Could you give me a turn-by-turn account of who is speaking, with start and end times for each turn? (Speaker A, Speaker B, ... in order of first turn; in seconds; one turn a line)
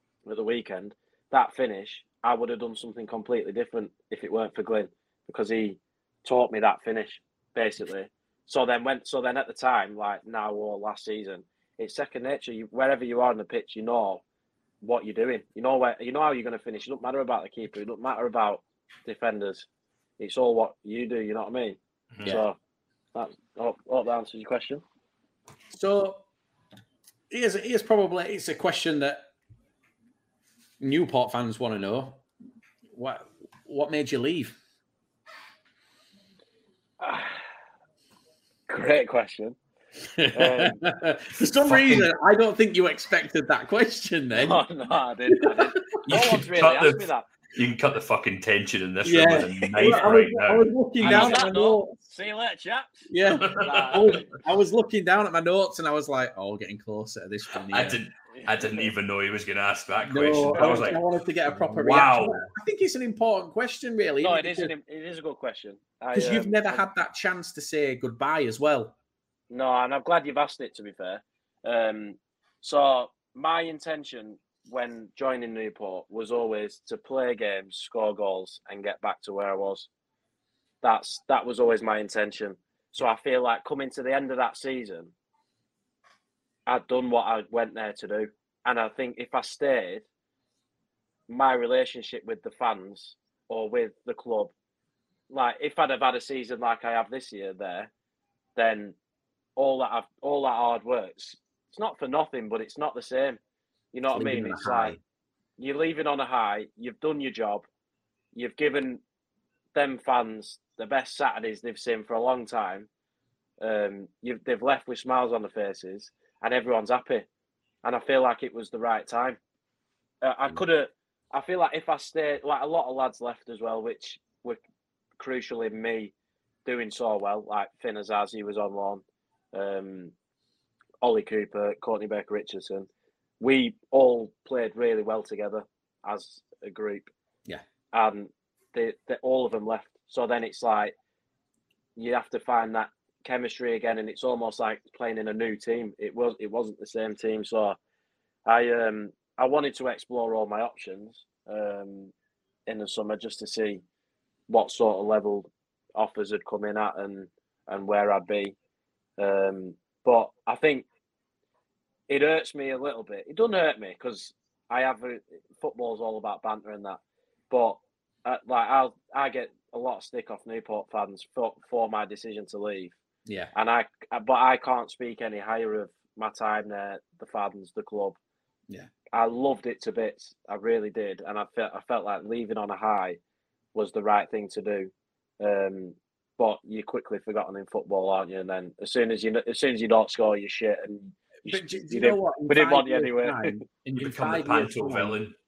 Speaker A: 0.3-14.2
Speaker A: 14.8-19.7
Speaker A: 20.2-22.6
Speaker A: 23.1-24.8
Speaker B: 25.7-26.2
Speaker B: 27.3-29.2
Speaker B: 30.8-32.2
Speaker B: 32.9-34.6
Speaker A: 37.0-37.4
Speaker A: 38.7-39.6
Speaker B: 40.1-44.6
Speaker A: 40.3-40.8
Speaker C: 41.6-42.1
Speaker A: 44.3-47.3
Speaker C: 46.0-51.5
Speaker B: 49.0-52.0
Speaker A: 51.0-54.3
Speaker B: 53.1-58.0
Speaker C: 53.3-54.0
Speaker C: 57.7-62.5
Speaker A: 58.3-58.9
Speaker B: 60.0-64.7
Speaker A: 60.6-61.0
Speaker A: 64.2-66.9
Speaker B: 66.1-68.9
Speaker A: 69.5-79.9
Speaker A: 80.8-85.1
Speaker A: 86.7-90.0
Speaker A: 91.3-94.5
Speaker A: 95.3-97.9
Speaker A: 98.6-99.0
Speaker A: 99.6-103.4
Speaker A: 103.9-105.0
Speaker B: 104.1-105.0
Speaker A: 105.6-107.7
Speaker A: 108.3-109.0
Speaker A: 109.8-112.9
Speaker A: 113.6-117.3
Speaker A: 117.8-119.4
Speaker A: 120.2-124.6
Speaker A: 125.2-126.1
Speaker A: 126.7-130.1
Speaker A: 131.0-132.9
Speaker A: 133.4-137.1
Speaker A: 137.9-140.9
Speaker A: 142.0-147.8
Speaker A: 148.5-152.1
Speaker A: 152.7-153.8
Speaker A: 154.5-158.6
Speaker A: 159.2-160.8
Speaker A: 162.1-173.0
Speaker B: 173.3-173.5
Speaker A: 173.5-178.2
Speaker A: 179.1-183.2
Speaker A: 183.7-193.7
Speaker B: 191.4-195.2
Speaker C: 194.0-195.3